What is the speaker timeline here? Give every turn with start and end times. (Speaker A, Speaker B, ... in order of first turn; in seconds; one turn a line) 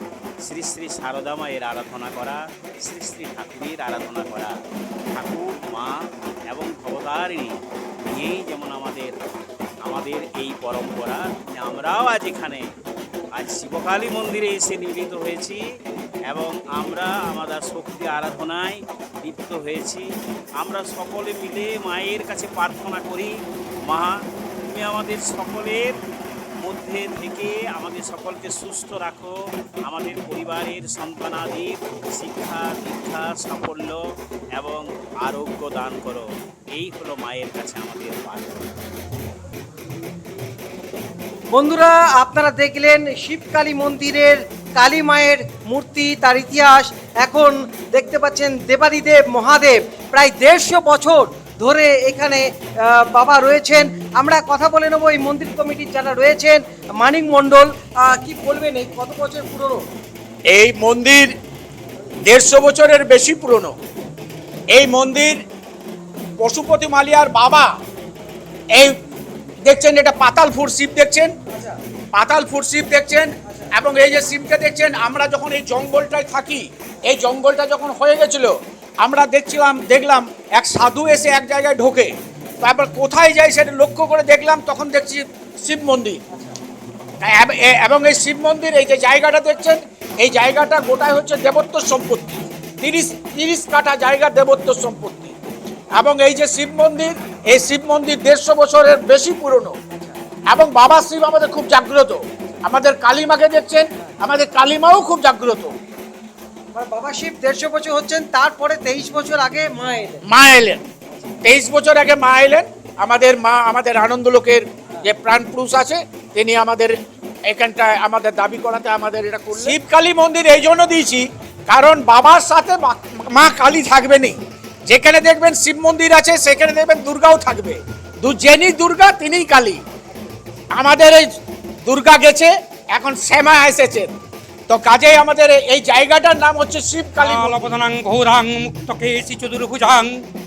Speaker A: 0.4-4.6
Speaker A: 5.1-6.0
Speaker A: 6.5-9.2
Speaker A: 9.8-12.7
Speaker A: 13.4-15.6
Speaker A: 16.3-20.1
Speaker A: 20.6-23.3
Speaker A: 23.9-24.2
Speaker A: 24.7-26.0
Speaker A: 26.6-29.4
Speaker A: 29.9-34.0
Speaker A: 34.6-38.6
Speaker B: 41.5-59.8
Speaker C: 60.5-61.3
Speaker C: 62.2-63.7
Speaker C: 64.7-65.4
Speaker C: 66.4-67.7
Speaker C: 69.7-71.3
Speaker C: 72.1-86.2
Speaker C: 87.2-95.3
Speaker C: 96.0-99.8
Speaker C: 100.5-105.7
Speaker B: 106.7-110.2
Speaker C: 110.2-110.8
Speaker C: 111.4-117.0
Speaker C: 117.5-129.8
Speaker C: 130.8-131.3
Speaker C: 131.9-134.1
Speaker C: 134.7-137.7
Speaker D: 137.2-140.1